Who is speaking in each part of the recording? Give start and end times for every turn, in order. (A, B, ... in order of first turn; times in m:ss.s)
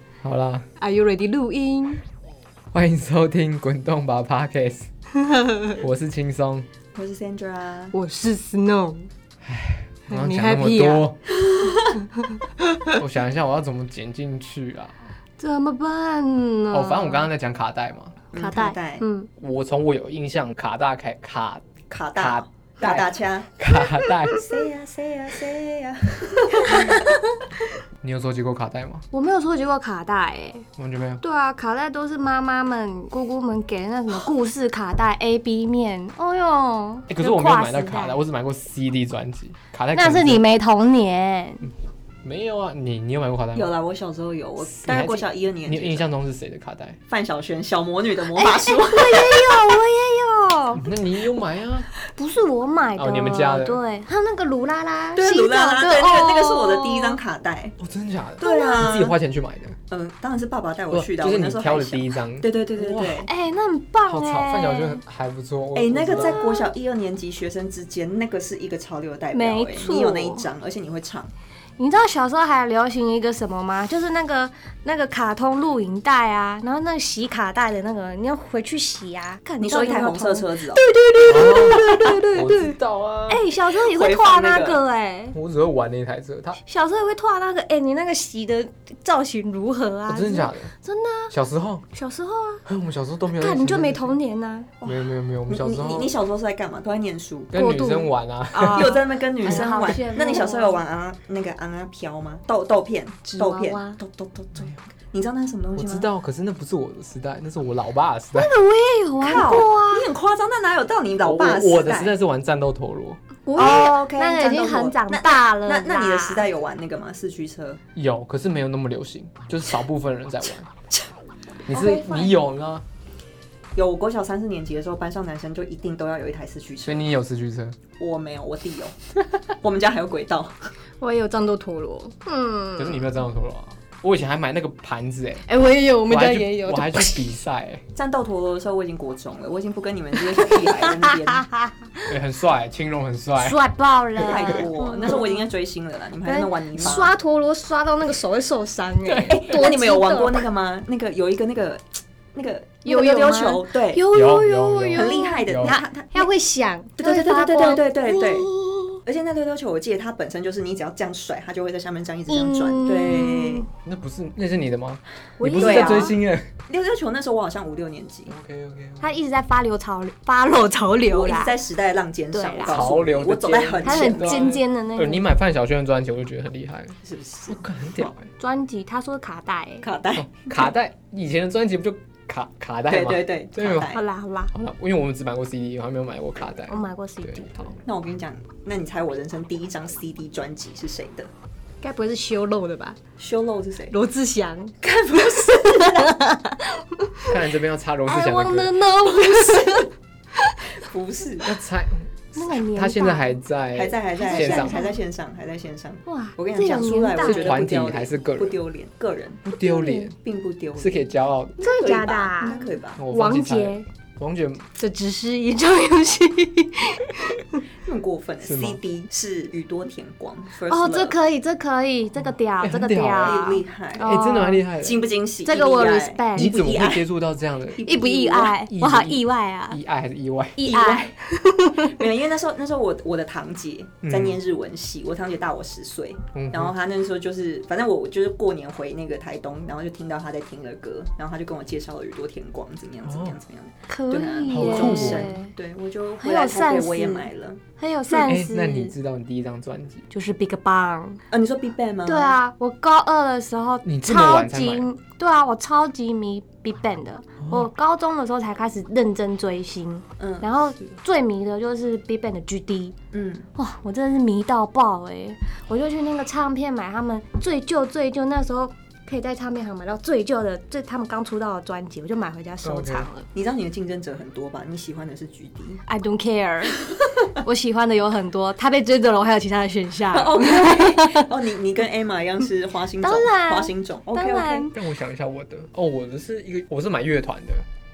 0:00.2-0:00.7 A
0:00.8-0:02.0 B
0:02.7-0:04.9 A
0:05.2-0:05.8 B
0:05.7-0:06.7 A
0:06.9-0:07.9 C
0:07.9-0:09.1 B
0:09.4-0:11.2 A
0:10.1-0:11.1 B
0:11.5-0:12.0 C
0:11.6-0:13.0 B
0:12.9-0:14.9 A
0:15.4-0:17.3 B
0:16.7-0:18.2 A
0:18.3-0:19.0 C
0:18.4-0:19.3 B
0:19.4-0:21.6 A
0:21.9-0:23.5 C
0:22.2-0:24.4 A
0:24.0-0:24.5 B
0:24.4-0:27.1 C
0:26.6-0:27.6 B
0:28.0-0:29.1 A
0:29.1-0:30.6 B
0:30.8-0:31.2 A
0:31.2-0:38.2 B
0:37.1-0:40.4 A
0:39.9-0:41.7 B
0:42.2-0:43.7 A
0:43.6-0:46.1 C
0:44.6-0:47.0 A
0:47.1-0:49.8 C
0:48.3-0:50.9 B
0:50.8-0:51.9 A
0:52.1-0:57.2 B
0:53.0-0:53.8 A
0:55.1-0:57.8 C
0:57.8-0:59.8 A
0:58.4-0:59.2 C
0:58.4-0:58.9 B
0:59.9-1:03.3 C
1:00.9-1:03.3 A
1:03.2-1:05.0 B
1:04.1-1:06.4 A
1:05.7-1:11.3 C
1:06.1-1:06.7 B
1:09.3-1:10.5 B
1:11.8-1:22.8 B
1:19.6-1:20.8 C
1:21.2-1:23.4 A
1:23.3-1:25.4 B
1:23.8-1:24.8 C
1:25.3-1:26.6 A
1:26.7-1:31.3 B
1:30.1-1:30.7 A
1:31.3-1:31.8 A
1:31.9-1:32.6 B
1:32.7-1:34.2 A
1:33.3-1:34.7 B
1:34.8-1:37.5 C
1:34.8-1:36.1 A
1:37.5-1:39.0 A
1:37.5-1:40.8 B
1:38.7-1:46.1 C
1:43.4-1:44.0 B
1:45.8-1:48.5 A
1:48.4-1:50.1 B
1:49.2-1:52.1 C
1:51.2-1:53.2 A
1:53.4-1:56.4 B
1:53.6-1:57.8 C
1:57.9-2:00.7 A
2:01.7-2:02.8 A
2:01.7-2:02.1 C
2:01.7-2:02.3 B
2:03.8-2:07.1 C
2:06.8-2:07.8 A
2:08.0-2:09.0 C
2:09.5-2:10.7 C
2:11.0-2:13.1 B
2:12.8-2:15.5 A
2:15.5-2:17.4 B
2:16.0-2:17.8 A
2:17.9-2:21.4 C
2:20.4-2:22.1 B
2:22.0-2:23.6 A
2:23.4-2:25.4 B
2:24.2-2:27.1 C
2:24.3-2:24.6 A
2:26.2-2:30.4 B
2:29.1-2:29.4 A
2:29.3-2:34.0 C
2:32.8-2:39.0 B
2:34.1-2:35.8 A
2:34.9-2:36.3 C
2:37.0-2:38.5 C
2:39.1-2:43.7 C
2:42.3-2:43.7 B
2:43.8-2:46.5 A
2:45.4-2:46.2 B
2:45.5-2:46.2 C
2:46.7-2:48.3 C
2:48.3-2:49.1 A
2:49.0-2:51.5 B
2:51.1-2:54.5 C
2:52.3-2:52.8 B
2:52.7-2:57.0 A
2:53.8-2:55.2 B
2:57.0-2:58.1 C
2:57.5-2:58.3 A
2:58.4-2:59.8 B
2:59.8-3:00.7 C
3:00.2-3:03.9 A
3:02.9-3:04.0 C
3:03.8-3:04.5 B
3:04.5-3:07.7 A
3:06.7-3:07.8 B
3:07.8-3:11.3 C
3:11.8-3:13.0 B
3:13.2-3:13.9 C
3:13.9-3:14.8 B
3:14.8-3:16.2 C
3:15.4-3:17.4 B
3:17.2-3:18.8 A
3:18.1-3:20.8 B
3:20.8-3:21.5 C
3:21.4-3:24.8 A
3:22.4-3:23.4 B
3:23.7-3:33.0 C
3:24.2-3:25.0 B
3:26.1-3:27.5 B
3:27.2-3:28.6 A
3:29.4-3:30.2 A
3:29.6-3:30.1 B
3:30.8-3:31.6 A
3:31.6-3:33.8 B
3:33.0-3:34.7 A
3:34.8-3:37.6 B
3:37.8-3:41.2 C
3:38.4-3:38.8 A
3:40.7-3:44.7 B
3:42.2-3:43.5 A
3:43.2-3:44.2 C
3:44.0-3:45.0 A
3:44.7-3:47.1 C
3:45.4-3:46.5 B
3:46.4-3:47.8 A
3:47.7-3:48.6 C
3:47.8-3:49.8 B
3:48.5-3:50.6 A
3:50.6-3:52.0 B
3:50.6-3:51.2 C
3:51.8-4:07.6 C
3:54.0-3:54.4 A
3:56.3-3:56.7 A
4:03.0-4:03.4 A
4:03.9-4:05.5 B
4:04.5-4:05.3 A
4:06.2-4:08.9 B
4:08.2-4:10.1 A
4:10.1-4:11.2 B
4:11.3-4:12.4 C
4:12.0-4:23.0 B
4:13.8-4:14.9 A
4:17.4-4:17.7 A
4:20.2-4:20.5 C
4:23.1-4:23.5 C
4:23.6-4:33.3 B
4:32.6-4:33.1 A
4:33.3-4:35.8 C
4:35.9-4:41.3 B
4:40.1-4:44.7 C
4:43.0-4:44.7 B
4:44.7-4:47.6 A